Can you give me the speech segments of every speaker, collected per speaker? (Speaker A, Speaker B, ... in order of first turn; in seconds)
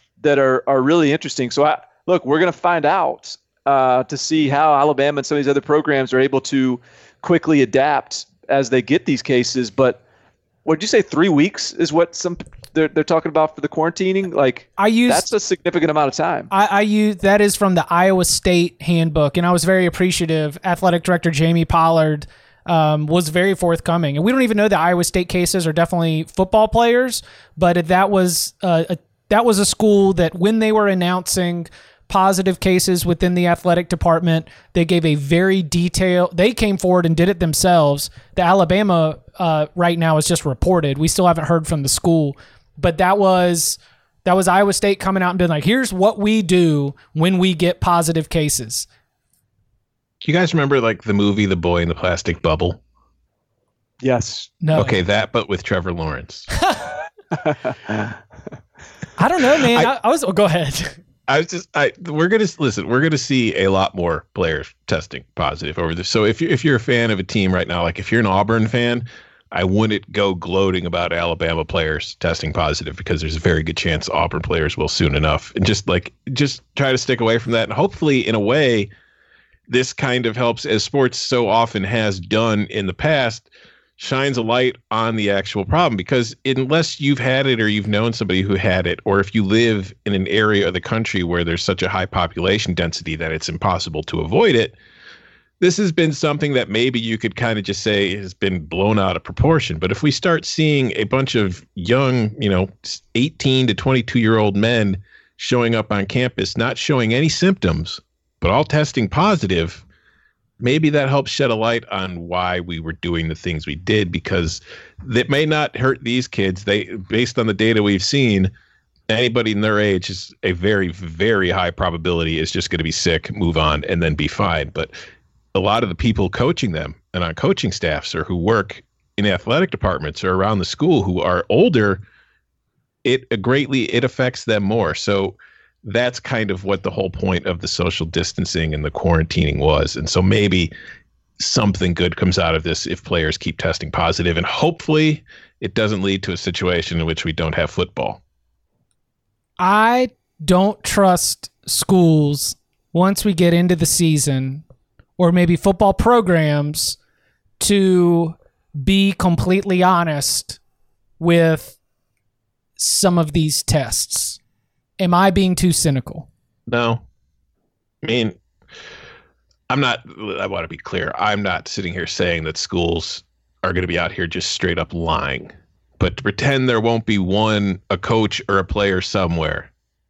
Speaker A: 0.2-10.0, 10.6-16.5, 54.0-54.5, 57.4-58.1
Speaker B: 14.8-15.3, 16.5-48.9, 54.6-55.0, 59.2-61.0, 149.6-154.6, 155.2-157.0, 157.6-160.6, 161.2-161.8, 162.8-164.4, 165.0-166.3
Speaker C: 50.2-52.8, 54.7-56.5, 61.3-78.9, 79.7-94.7, 95.6-109.8, 110.6-118.5, 119.1-124.9, 125.5-132.0, 133.0-140.7, 141.4-148.2, 166.7-167.0, 168.0-168.4, 169.7-179.7